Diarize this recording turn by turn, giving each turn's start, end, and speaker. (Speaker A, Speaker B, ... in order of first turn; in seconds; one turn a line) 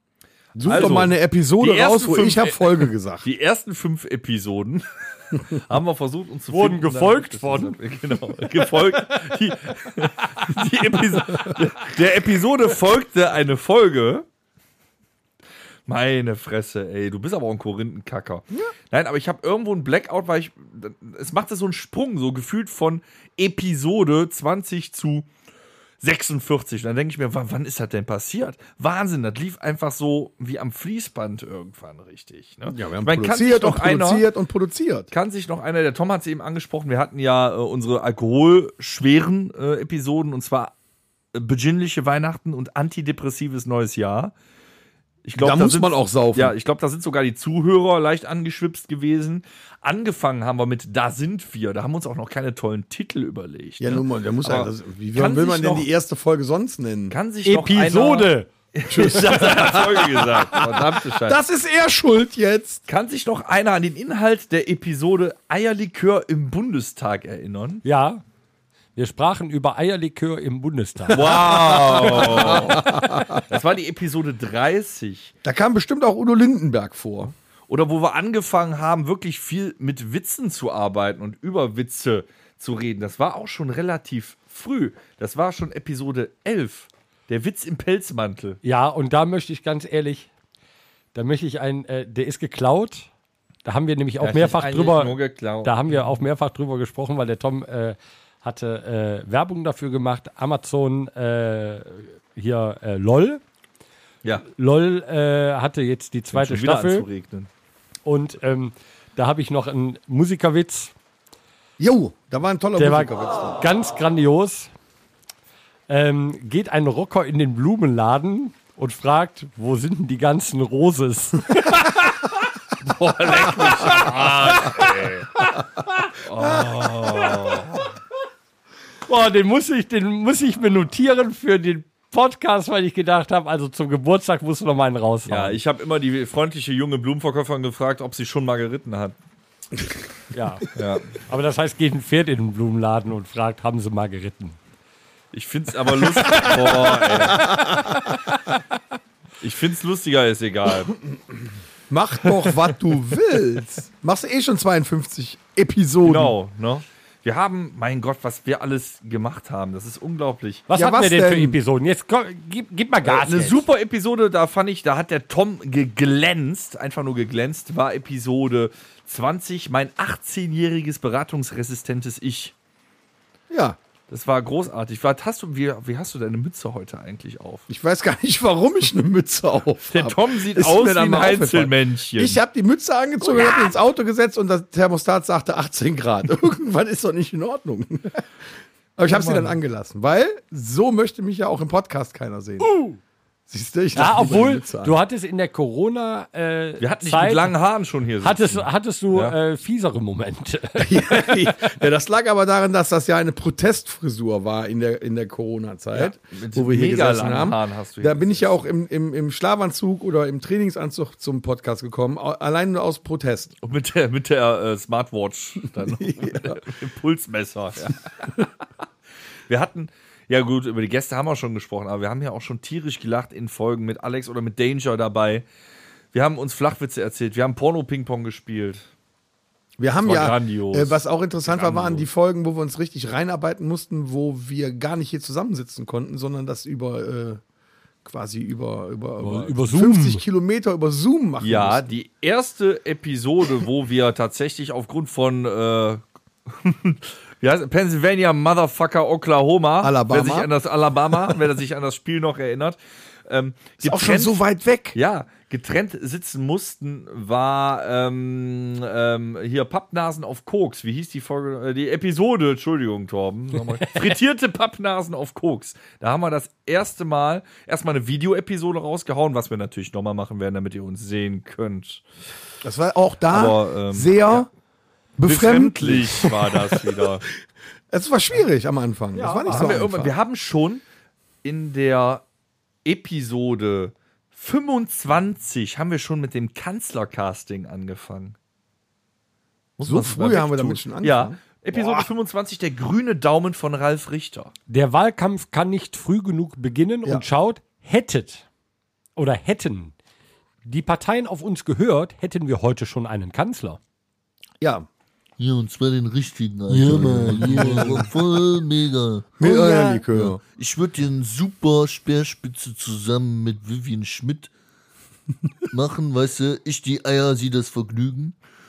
Speaker A: 0.5-3.3
Speaker B: 0.6-14.2
Speaker C: 6.5-7.8
Speaker B: 15.9-25.3
Speaker B: 26.0-34.3
Speaker A: 32.7-35.1
Speaker B: 35.1-40.7
Speaker B: 41.3-44.3
Speaker B: 45.2-55.9
Speaker A: 45.3-46.5
Speaker A: 53.8-57.1
Speaker B: 57.1-61.4
Speaker C: 57.4-58.5
Speaker A: 58.9-62.8
Speaker B: 62.9-67.8
Speaker C: 67.8-68.2
Speaker C: 69.0-71.3
Speaker B: 71.1-75.3
Speaker A: 71.3-73.4
Speaker A: 75.4-77.3
Speaker B: 77.7-88.6
Speaker C: 88.6-90.3
Speaker C: 91.1-93.1
Speaker C: 93.6-103.4
Speaker B: 94.2-96.0
Speaker C: 104.5-107.0
Speaker B: 106.3-107.5
Speaker C: 108.0-110.9
Speaker A: 111.8-113.6
Speaker C: 112.8-114.7
Speaker C: 115.9-121.9
Speaker B: 122.8-125.3
Speaker C: 123.5-124.9
Speaker B: 126.2-127.9
Speaker C: 129.1-135.6
Speaker B: 135.2-139.2
Speaker C: 140.3-140.7
Speaker B: 140.7-141.1
Speaker C: 141.2-144.6
Speaker B: 145.3-147.8
Speaker A: 147.4-147.7
Speaker B: 149.4-151.0
Speaker A: 151.9-156.3
Speaker B: 156.0-160.7
Speaker C: 160.7-163.6
Speaker A: 160.7-161.6
Speaker B: 163.0-172.5
Speaker A: 173.5-173.8
Speaker B: 174.1-177.7
Speaker A: 177.7-188.2
Speaker B: 179.9-182.4
Speaker A: 189.0-192.7
Speaker B: 189.0-189.5
Speaker C: 192.6-193.0
Speaker A: 193.5-194.9
Speaker C: 193.9-197.5
Speaker B: 196.8-199.3
Speaker C: 198.2-201.5
Speaker A: 200.8-213.5
Speaker B: 205.9-208.6
Speaker B: 213.6-218.5
Speaker A: 215.8-216.6
Speaker B: 219.5-225.4
Speaker B: 226.1-228.8
Speaker A: 229.8-237.4
Speaker B: 230.0-232.1
Speaker A: 238.0-241.8
Speaker C: 239.2-240.2
Speaker B: 241.4-254.4
Speaker A: 249.8-250.5
Speaker A: 253.8-255.0
Speaker B: 254.9-272.0
Speaker A: 272.6-274.5
Speaker B: 273.3-274.5
Speaker A: 275.2-276.9
Speaker B: 275.2-277.2
Speaker A: 277.9-280.1
Speaker C: 279.1-279.8
Speaker B: 279.5-280.8
Speaker B: 281.4-282.2
Speaker B: 282.8-288.4
Speaker B: 289.8-294.5
Speaker A: 289.8-292.1
Speaker C: 294.7-298.4
Speaker C: 299.1-299.9
Speaker C: 300.6-303.8
Speaker A: 304.6-304.9
Speaker D: 305.4-314.5
Speaker A: 306.7-308.1
Speaker A: 309.4-310.4
Speaker D: 315.7-318.4